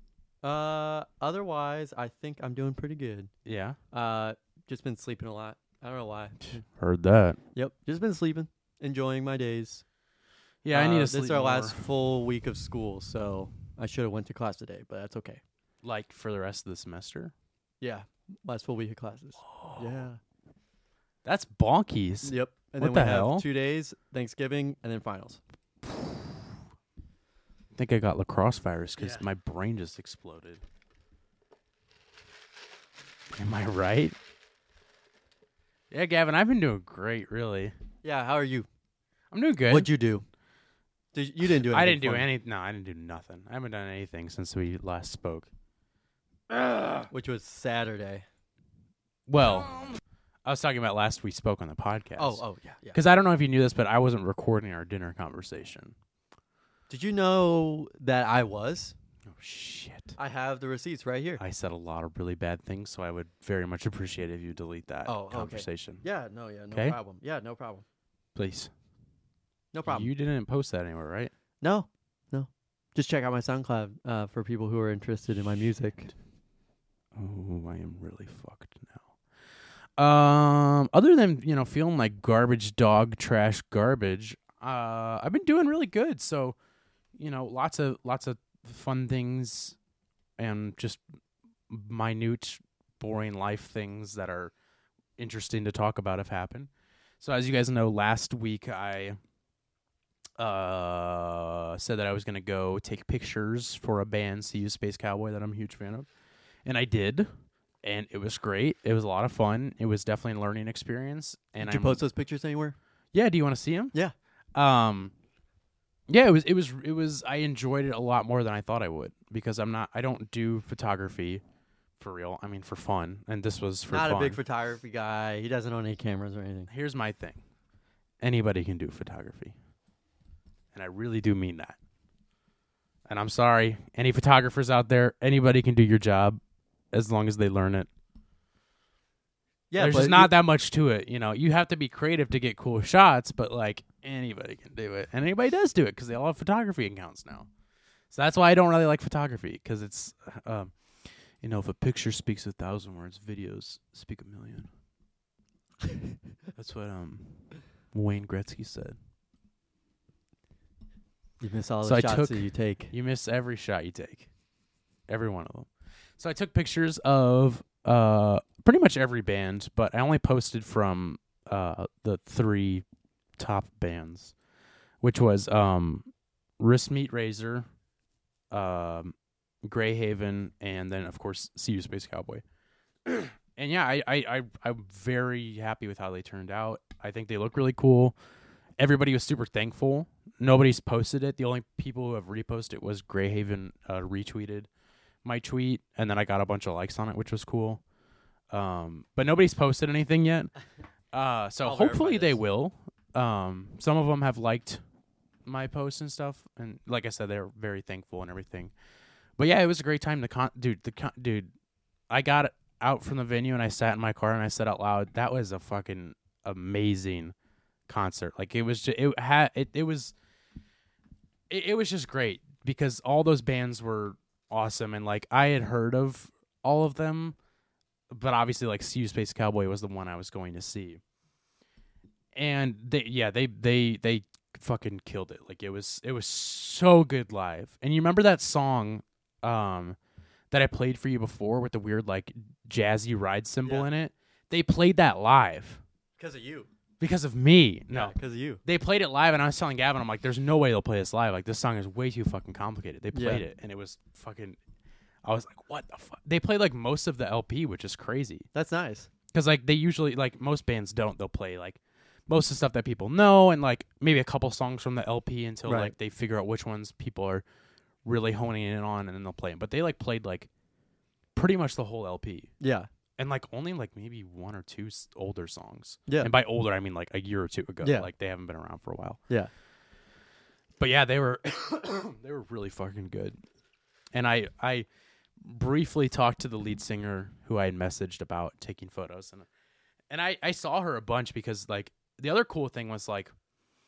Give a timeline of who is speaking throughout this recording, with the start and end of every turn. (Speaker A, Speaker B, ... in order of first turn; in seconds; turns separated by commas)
Speaker A: 0.4-3.3, Speaker B: 3.5-3.8, Speaker A: 3.9-6.6, Speaker B: 6.4-7.4, Speaker A: 7.5-9.8, Speaker B: 10.6-11.8, Speaker A: 10.7-15.4, Speaker B: 15.8-17.3, Speaker A: 17.8-20.2, Speaker B: 19.4-20.0, Speaker B: 21.2-23.5, Speaker A: 22.2-25.4, Speaker B: 25.9-26.3, Speaker B: 27.8-30.6, Speaker A: 29.0-29.2, Speaker B: 33.4-34.2, Speaker B: 35.9-37.8, Speaker A: 38.0-38.7, Speaker B: 39.3-39.9, Speaker A: 39.7-40.2, Speaker A: 41.1-42.3, Speaker B: 41.6-45.5, Speaker B: 46.5-47.1, Speaker A: 47.1-48.3, Speaker B: 49.3-49.8, Speaker B: 50.5-56.0, Speaker A: 52.2-53.0, Speaker A: 56.9-59.0, Speaker B: 59.3-60.2, Speaker A: 60.2-61.4, Speaker B: 61.4-66.0, Speaker A: 65.0-67.8, Speaker B: 66.7-67.0, Speaker B: 68.3-68.7, Speaker A: 69.7-70.1, Speaker B: 69.8-71.3, Speaker A: 71.6-76.1, Speaker B: 77.2-79.1, Speaker B: 80.0-86.6, Speaker B: 87.2-89.8, Speaker B: 90.4-91.0, Speaker B: 91.7-94.5, Speaker B: 95.2-96.7, Speaker B: 97.2-99.2, Speaker B: 100.4-106.1, Speaker B: 106.7-107.3, Speaker B: 107.8-112.0, Speaker A: 111.6-112.8, Speaker B: 113.1-114.0, Speaker B: 114.5-115.1, Speaker B: 116.1-121.4, Speaker B: 122.0-124.4, Speaker A: 123.9-126.7, Speaker B: 126.7-127.4, Speaker B: 128.2-129.6, Speaker B: 130.7-131.8, Speaker B: 133.1-136.4, Speaker B: 136.9-137.9, Speaker A: 139.7-140.3, Speaker B: 139.8-147.5, Speaker B: 148.1-150.8, Speaker B: 151.4-154.7, Speaker B: 156.6-159.0, Speaker A: 161.4-162.9, Speaker B: 161.8-164.3, Speaker B: 165.1-172.8, Speaker B: 173.4-174.3, Speaker B: 175.0-176.1, Speaker B: 176.6-177.7, Speaker B: 178.5-182.4, Speaker B: 183.1-188.2, Speaker B: 188.8-194.7, Speaker B: 195.2-197.8, Speaker B: 198.5-200.5, Speaker B: 201.1-204.8, Speaker A: 201.6-202.4, Speaker B: 205.4-208.7, Speaker B: 209.4-211.5, Speaker B: 212.1-217.3, Speaker B: 217.9-220.1, Speaker B: 221.5-227.4, Speaker B: 228.1-231.0, Speaker B: 232.3-240.0, Speaker B: 240.5-245.8, Speaker A: 243.7-243.9, Speaker A: 246.2-246.7, Speaker B: 247.0-254.6, Speaker A: 247.9-248.6, Speaker A: 253.1-253.4, Speaker B: 255.2-258.5, Speaker A: 258.5-259.1, Speaker B: 259.3-267.4, Speaker A: 265.7-265.9, Speaker B: 268.0-270.5, Speaker B: 271.4-272.5, Speaker A: 272.6-272.9, Speaker B: 273.2-279.2, Speaker A: 277.8-278.1, Speaker B: 280.8-283.4, Speaker B: 284.1-284.9, Speaker B: 285.4-289.5, Speaker B: 290.1-293.3